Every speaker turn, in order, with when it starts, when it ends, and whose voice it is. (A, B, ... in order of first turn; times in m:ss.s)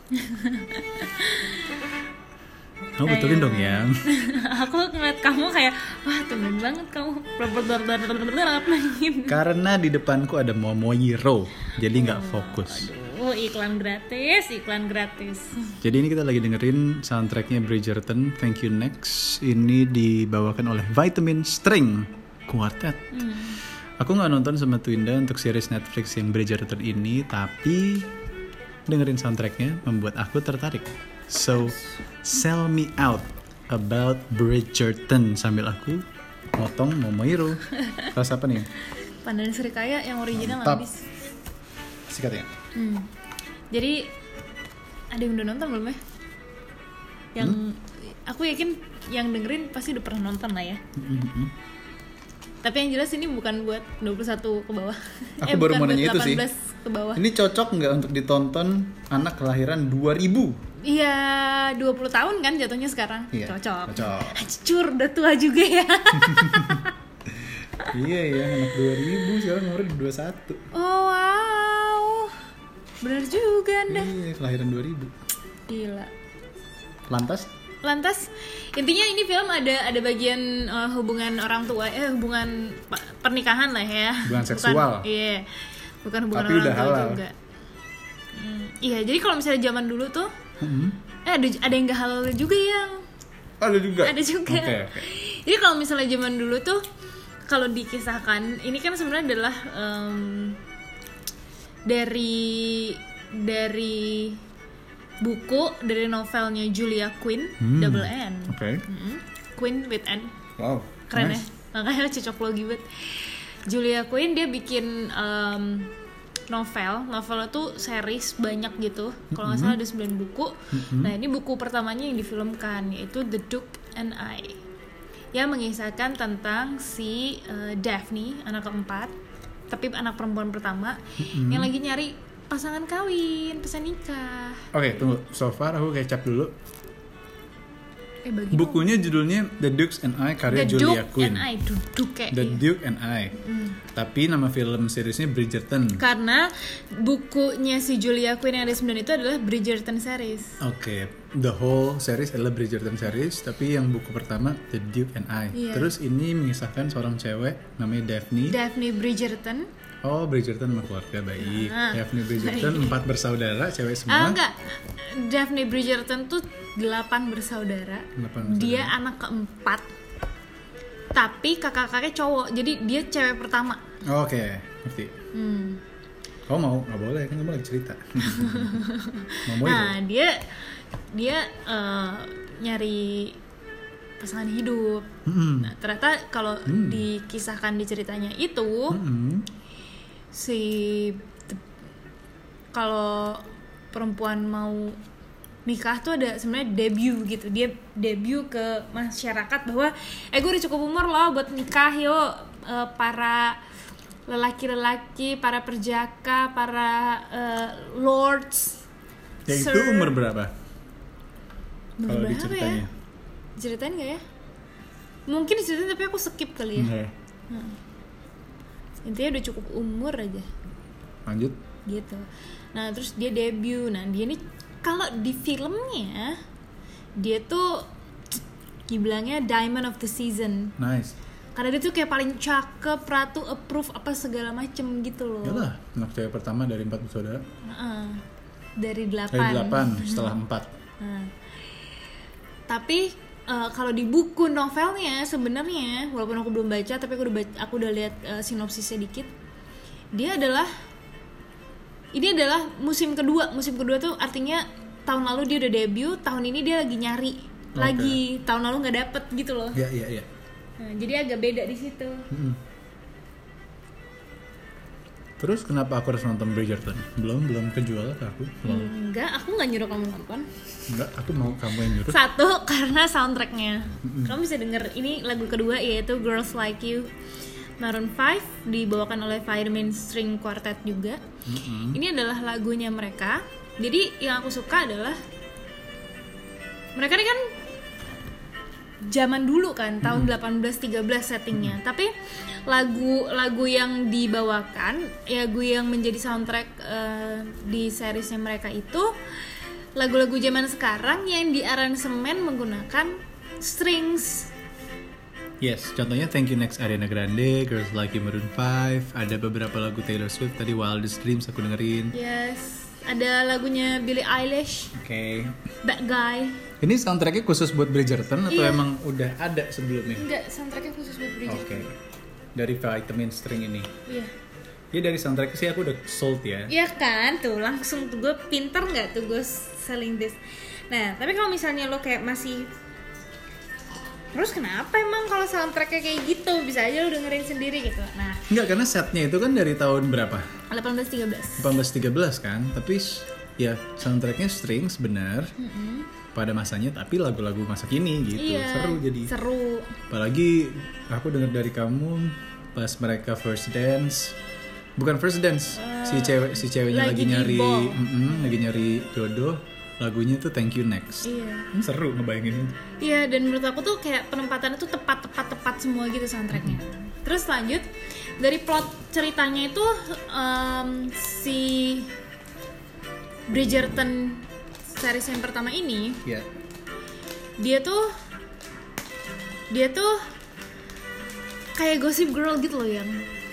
0:00.1-0:01.6 A
0:03.0-0:04.0 B
0:03.0-0:09.4 A
0:09.3-0:12.9 B
0:11.9-0:15.8 A
0:15.8-0:23.2 B
0:23.1-0:23.6 A
0:24.0-0:28.1 B
0:28.9-0:36.0 B
0:36.6-0:38.7 B
0:37.8-0:38.1 A
0:39.2-0:41.0 A
0:40.3-0:40.8 B
0:42.1-0:42.5 B
0:42.7-0:43.1 A
0:43.7-0:44.1 A
0:45.1-0:46.0 A
0:47.3-0:50.8 A
0:50.9-0:51.5 B
0:52.6-0:57.2 A
0:55.4-0:56.4 B
0:57.2-1:00.6 B
1:00.8-1:06.9 A
1:03.3-1:04.4 B
1:06.2-1:06.8 B
1:07.8-1:10.6 B
1:10.7-1:12.4 A
1:13.0-1:14.1 A
1:13.9-1:15.1 B
1:15.7-1:16.1 A
1:17.1-1:17.5 B
1:17.8-1:25.5 A
1:24.2-1:25.1 B
1:26.0-1:27.4 A
1:26.3-1:27.2 B
1:28.3-1:30.3 A
1:30.6-1:31.0 B
1:31.2-1:33.0 A
1:33.6-1:35.0 B
1:34.0-1:36.8 A
1:37.5-1:40.6 A
1:41.8-1:44.4 A
1:45.2-1:50.4 A
1:47.6-1:48.8 B
1:50.6-1:51.4 B
1:51.1-1:55.9 A
1:56.5-2:04.6 A
1:59.3-1:59.8 B
2:00.7-2:01.1 B
2:05.3-2:09.1 A
2:09.7-2:14.7 A
2:11.2-2:11.7 B
2:14.7-2:16.5 B
2:18.2-2:18.9 A
2:18.5-2:21.5 B
2:20.5-2:22.6 A
2:22.3-2:23.4 B
2:23.4-2:23.8 A
2:23.9-2:26.0 B
2:26.0-2:30.6 A
2:30.6-2:38.6 B
2:35.5-2:35.9 A
2:38.4-2:39.7 A
2:40.0-2:44.4 B
2:41.4-2:43.0 A
2:44.1-2:49.8 A
2:48.2-2:48.9 B
2:51.1-2:53.8 A
2:54.0-2:55.2 B
2:55.3-2:55.8 A
2:56.5-2:58.8 B
2:58.2-3:03.4 A
2:59.5-3:00.0 B
3:04.2-3:09.0 A
3:05.2-3:05.7 B
3:06.7-3:07.0 B
3:08.9-3:09.5 B
3:10.3-3:11.6 A
3:12.7-3:15.0 A
3:15.6-3:23.6 A
3:24.3-3:28.8 A
3:29.5-3:30.2 A
3:29.5-3:30.5 B
3:32.0-3:32.8 A
3:32.0-3:32.9 B
3:33.6-3:34.2 A
3:35.3-3:36.9 A
3:36.7-3:37.1 B
3:37.5-3:37.8 A
3:39.0-3:40.4 A
3:41.2-3:41.6 B
3:41.8-3:46.4 A
3:47.2-3:47.9 A
3:48.9-3:50.8 A
3:50.8-3:51.2 B
3:51.6-3:55.7 A
3:55.4-3:57.4 B
3:57.6-3:58.2 A
3:58.8-4:00.3 A
3:59.3-4:00.7 B
4:01.0-4:01.3 A
4:02.7-4:09.3 A
4:10.1-4:10.7 A
4:12.1-4:19.8 A
4:17.7-4:18.2 B
4:19.7-4:20.3 B
4:20.8-4:22.3 A
4:22.3-4:22.6 B
4:25.4-4:28.9 B
4:28.6-4:30.6 A
4:30.9-4:32.2 B
4:31.9-4:37.1 A
4:34.0-4:34.4 B
4:37.8-4:41.2 A
4:41.4-4:42.0 B
4:41.9-4:45.2 A
4:46.9-4:47.5 A
4:49.0-4:52.1 A
4:50.0-4:50.3 B
4:52.6-4:59.1 A
5:00.0-5:04.5 A
5:05.6-5:12.2 B
5:12.1-5:14.9 A
5:14.9-5:15.5 B
5:15.8-5:16.6 A
5:16.8-5:20.3 B
5:18.5-5:18.8 A
5:20.1-5:21.9 A
5:21.5-5:22.0 B
5:22.5-5:23.9 B
5:24.0-5:24.3 A
5:24.9-5:26.7 B
5:26.7-5:32.7 A
5:34.3-5:38.5 A
5:38.5-5:40.5 B
5:40.7-5:41.7 A
5:41.6-5:45.5 B
5:45.6-5:46.1 A
5:46.3-5:49.3 B
5:48.4-5:50.0 A
5:50.1-5:54.3 B
5:55.0-6:02.8 B
5:55.7-5:58.3 A
6:01.2-6:01.7 A
6:03.0-6:07.9 A
6:08.4-6:12.1 A
6:13.5-6:16.2 A
6:17.6-6:18.1 A
6:19.7-6:20.2 A
6:21.8-6:23.3 A